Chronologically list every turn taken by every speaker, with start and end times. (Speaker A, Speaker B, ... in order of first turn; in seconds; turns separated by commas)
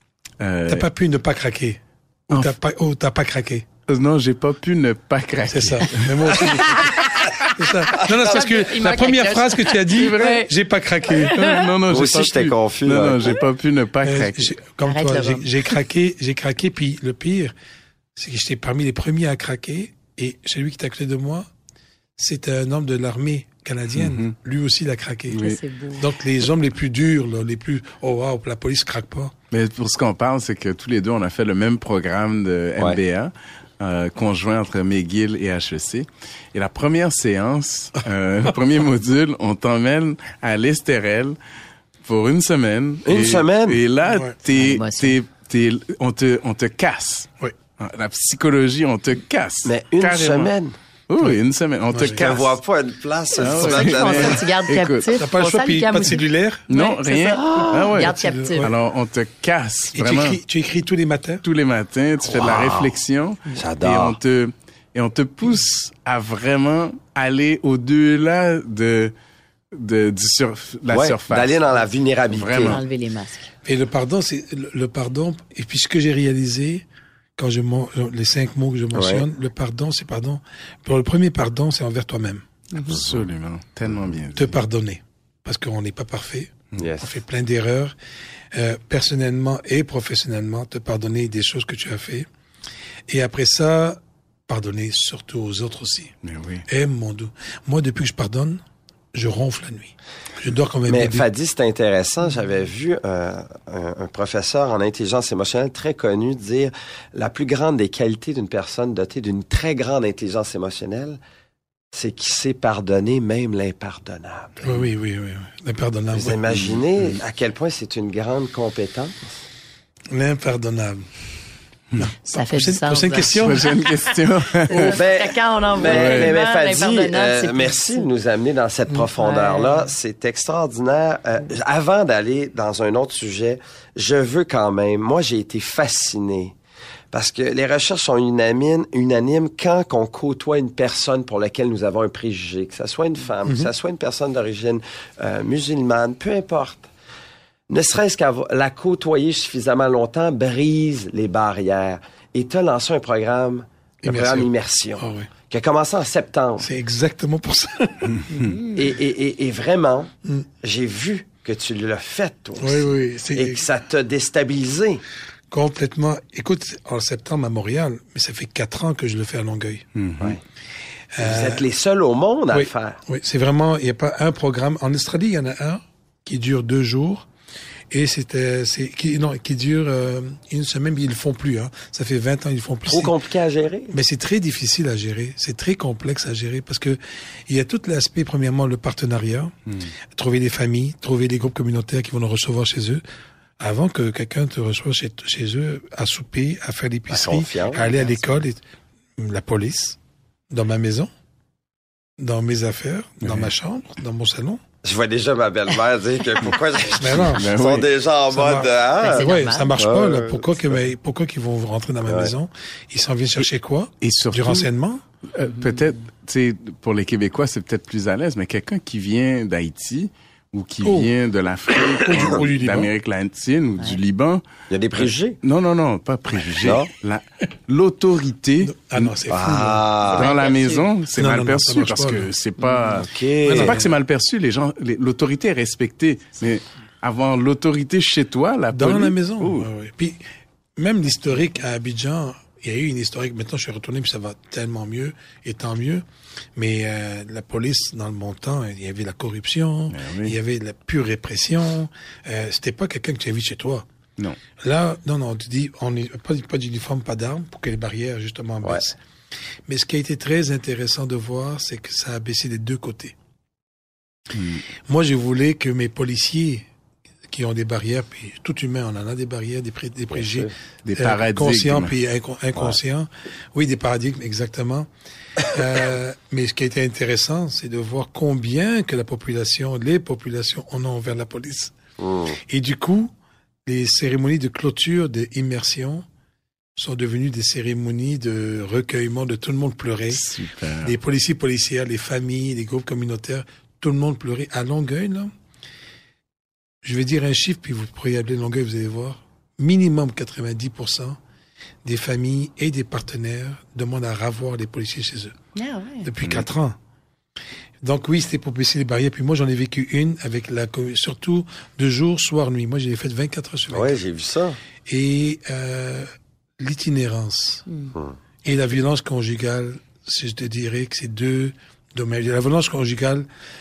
Speaker A: 0.4-0.9, Speaker B: 0.7-3.7, Speaker A: 2.3-2.5, Speaker A: 3.9-7.5, Speaker B: 5.5-7.0, Speaker B: 7.6-11.4, Speaker C: 8.0-10.5, Speaker A: 9.9-10.5, Speaker C: 11.1-11.6, Speaker A: 11.3-14.5, Speaker D: 11.9-13.4, Speaker B: 14.0-17.5, Speaker C: 14.8-15.5, Speaker B: 18.2-21.5, Speaker B: 22.2-29.3, Speaker A: 23.9-24.4, Speaker A: 25.3-25.6, Speaker C: 25.4-26.1, Speaker A: 29.5-41.4, Speaker A: 42.0-50.5, Speaker D: 43.1-43.8, Speaker B: 44.1-44.4, Speaker C: 44.5-45.2, Speaker D: 49.6-50.8, Speaker A: 51.1-52.5, Speaker B: 51.9-52.4, Speaker D: 52.0-54.5, Speaker A: 53.4-55.1, Speaker C: 53.4-58.7, Speaker B: 55.1-56.7, Speaker A: 56.7-60.4, Speaker D: 57.3-58.0, Speaker B: 58.0-58.8, Speaker B: 60.0-61.4, Speaker A: 61.4-69.1, Speaker D: 62.2-63.0, Speaker D: 63.5-64.2, Speaker A: 69.7-72.8, Speaker D: 70.9-72.8, Speaker C: 72.7-73.5, Speaker B: 73.7-76.8, Speaker B: 77.4-82.4, Speaker D: 78.9-79.2, Speaker C: 82.7-83.0, Speaker A: 82.9-84.6, Speaker B: 84.4-88.0, Speaker D: 86.8-87.2, Speaker B: 88.5-92.3, Speaker B: 93.1-96.1, Speaker A: 96.2-96.7, Speaker B: 96.7-98.6, Speaker B: 99.1-101.3, Speaker D: 100.9-111.2, Speaker D: 111.9-114.8, Speaker B: 114.6-116.4, Speaker D: 116.1-119.2, Speaker A: 116.5-117.2, Speaker B: 120.1-121.1, Speaker B: 122.0-123.7, Speaker C: 122.3-123.9, Speaker A: 123.4-125.0, Speaker C: 124.7-128.1, Speaker D: 124.8-136.5, Speaker A: 125.8-126.4, Speaker C: 129.2-129.9, Speaker D: 137.1-146.9, Speaker B: 143.4-143.7, Speaker D: 147.7-156.7, Speaker B: 154.1-155.3, Speaker B: 156.6-158.5, Speaker A: 158.1-158.5, Speaker C: 158.3-158.8, Speaker D: 158.8-165.0, Speaker B: 162.6-163.6, Speaker B: 165.5-169.8, Speaker A: 169.9-170.4, Speaker B: 171.1-171.7, Speaker D: 171.2-173.0, Speaker B: 172.5-177.3, Speaker B: 177.9-183.2, Speaker D: 182.9-183.9, Speaker B: 183.9-189.5, Speaker A: 189.7-189.9, Speaker B: 190.1-193.0, Speaker B: 193.6-198.6, Speaker D: 197.1-197.9, Speaker B: 199.2-200.0, Speaker B: 200.5-201.1, Speaker B: 202.2-204.6, Speaker A: 203.2-203.5, Speaker D: 204.8-210.6, Speaker B: 206.9-207.5, Speaker A: 207.2-207.9, Speaker B: 208.3-215.0, Speaker C: 209.0-209.8, Speaker D: 212.1-212.3, Speaker A: 214.0-214.7, Speaker A: 215.3-224.4, Speaker C: 215.4-216.0, Speaker B: 220.8-221.1, Speaker B: 221.8-222.9, Speaker D: 224.7-225.4, Speaker A: 225.0-229.1, Speaker D: 226.4-226.9, Speaker B: 228.6-229.9, Speaker D: 229.3-230.3, Speaker A: 230.1-239.7, Speaker C: 230.1-230.9, Speaker B: 231.1-232.3, Speaker C: 232.6-233.0, Speaker D: 232.9-233.8, Speaker B: 233.4-233.9, Speaker B: 238.7-240.2, Speaker B: 240.8-246.0, Speaker B: 246.6-253.9, Speaker A: 249.9-250.4, Speaker B: 254.6-259.0, Speaker B: 259.7-263.1, Speaker A: 264.3-264.7, Speaker B: 264.9-266.6, Speaker B: 267.3-274.9, Speaker D: 270.1-270.5, Speaker A: 270.8-271.9, Speaker B: 275.4-281.8, Speaker D: 282.0-282.4, Speaker B: 282.5-283.1, Speaker B: 283.7-286.1, Speaker B: 286.8-290.3, Speaker A: 290.1-290.9, Speaker B: 290.8-295.3, Speaker B: 296.8-301.2, Speaker B: 301.8-305.4, Speaker C: 305.6-306.1, Speaker B: 306.0-306.8, Speaker B: 307.8-314.0, Speaker D: 313.7-314.6, Speaker B: 314.9-317.6, Speaker C: 317.7-317.9, Speaker B: 318.4-323.3